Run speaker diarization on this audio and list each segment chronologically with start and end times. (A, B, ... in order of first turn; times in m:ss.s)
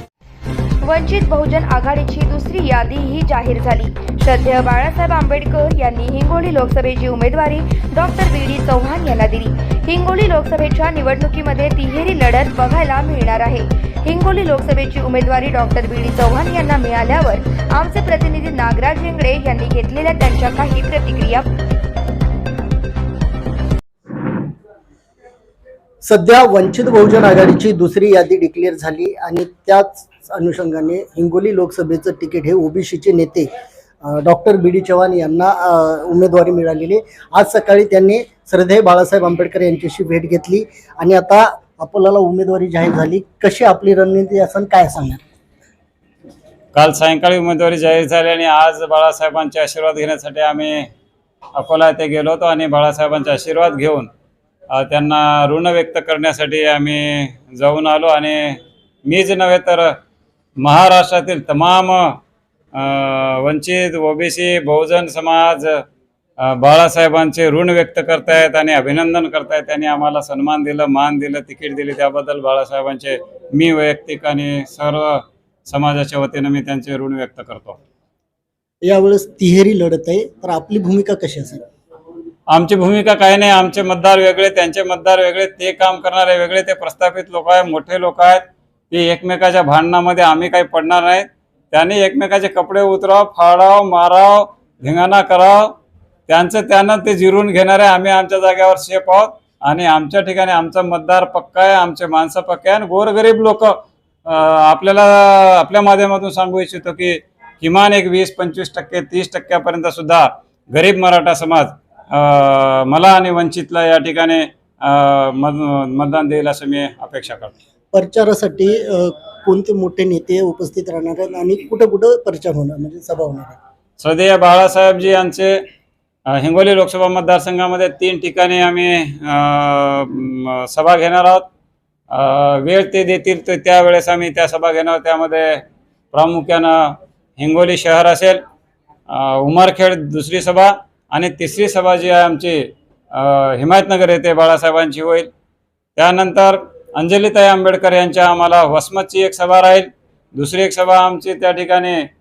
0:00.8-0:21.5 A
0:26.0-0:33.5 B
0:34.0-0:45.2 B
0:46.7-0:50.9 C
0:51.6-0:54.1 C
0:54.7-0:59.9 C
1:00.6-1:02.2 C
1:02.8-1:05.8 C
1:06.4-1:17.8 C
1:18.8-1:21.6 B
1:22.5-1:35.7 C
1:36.3-1:57.5 C
1:57.9-2:03.6 B
2:04.0-2:05.6 C
2:06.4-2:11.5 C
2:12.1-2:18.4 C
2:19.1-2:22.6 C
2:23.1-2:25.3 C
2:26.0-2:32.0 C